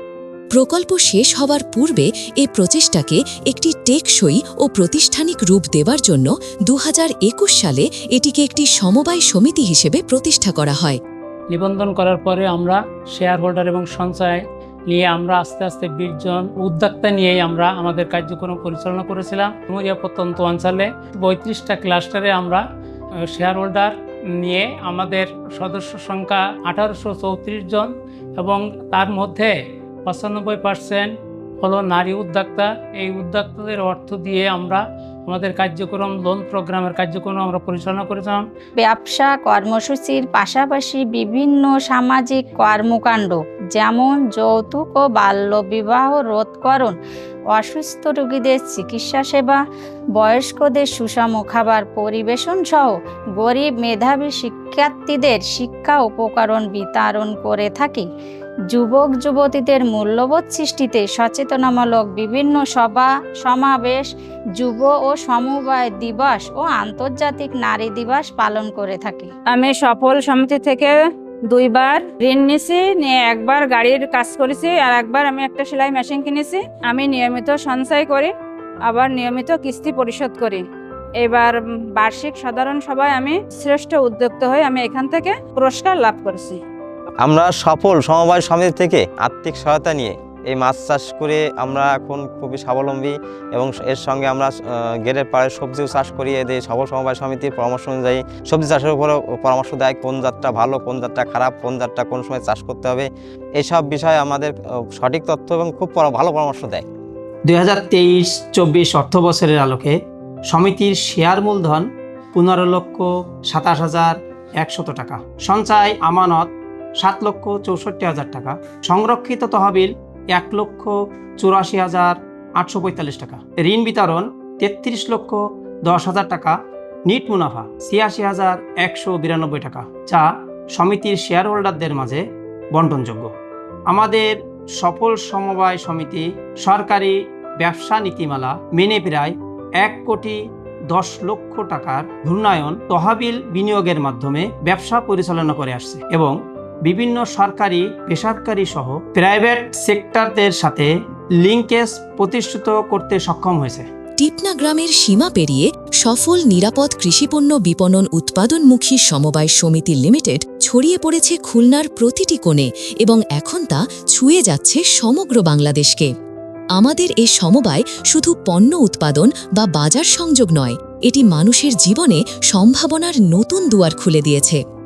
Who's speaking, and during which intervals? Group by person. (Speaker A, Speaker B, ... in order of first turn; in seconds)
Speaker A: 0.5-11.0, 154.2-166.1, 166.8-174.6
Speaker B: 11.5-22.6, 23.3-29.5, 30.1-38.4
Speaker C: 38.8-47.0, 47.5-49.6, 50.2-58.1, 58.7-69.3
Speaker D: 69.5-70.9, 71.5-78.3, 78.8-80.6, 81.2-86.6
Speaker E: 87.2-106.9
Speaker F: 107.5-110.0, 110.5-126.6, 127.1-133.3, 133.9-140.4, 140.9-150.9, 151.4-153.9